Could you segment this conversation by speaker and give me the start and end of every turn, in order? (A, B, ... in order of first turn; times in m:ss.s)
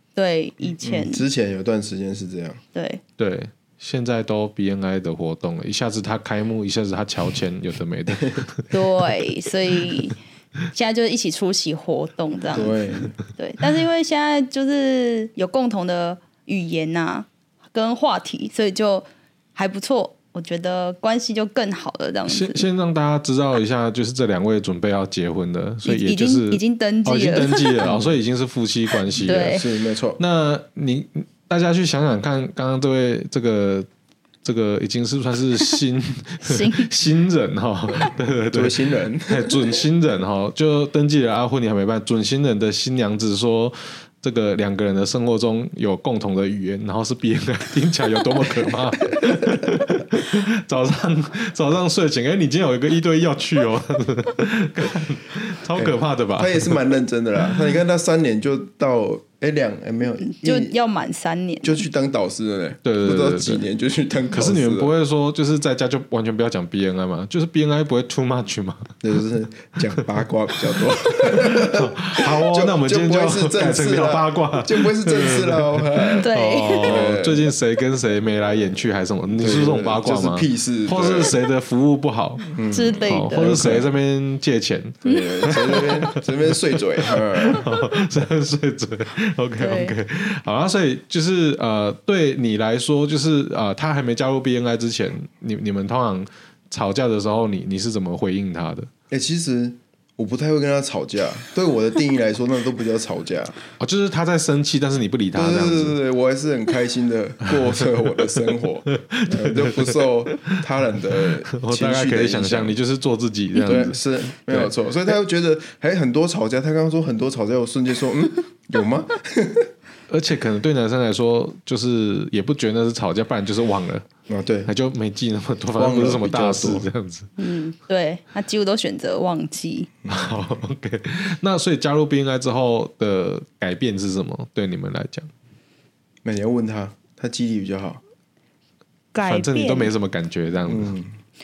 0:00.2-0:01.2 A
0:00.8-0:02.6 B
0:02.8-0:03.0 A
0:03.2-0:08.7 C
0:08.7-0:10.2 A
0:10.7-0:22.7 A
0:12.5-0:13.1 B
0:22.3-0:29.7 C
0:25.8-0:27.8 A
0:27.8-0:28.2 B
0:29.2-0:29.6 A
0:29.5-0:30.2 B
0:30.2-0:33.9 C
0:34.4-0:56.8 C
0:36.4-0:36.9 A
0:38.5-0:39.6 B
0:55.8-1:00.8 B
1:00.2-1:01.8 A
1:01.6-1:04.9 B
1:02.8-1:03.6 C
1:04.3-1:08.9 C
1:09.0-1:16.3 B
1:11.2-1:26.2 C
1:16.2-1:16.9 A
1:16.8-1:17.5 B
1:19.4-1:21.4 B
1:22.5-1:23.9 B
1:22.7-1:23.6 A
1:25.0-1:27.7 B
1:27.1-1:38.9 C
1:29.6-1:30.0 A
1:39.1-1:43.6 B
1:43.8-1:46.0 C
1:45.3-1:52.8 B
1:48.9-1:50.6 C
1:51.5-1:54.7 C
1:53.7-1:59.7 B
2:00.1-2:04.1 C
2:04.3-2:04.7 B
2:04.7-2:07.3 C
2:05.8-2:06.9 B
2:07.4-2:09.9 A
2:10.0-2:10.5 B
2:10.1-2:15.3 C
2:16.2-2:18.0 B
2:19.1-2:19.9 A
2:19.2-2:20.9 C
2:20.7-2:21.1 B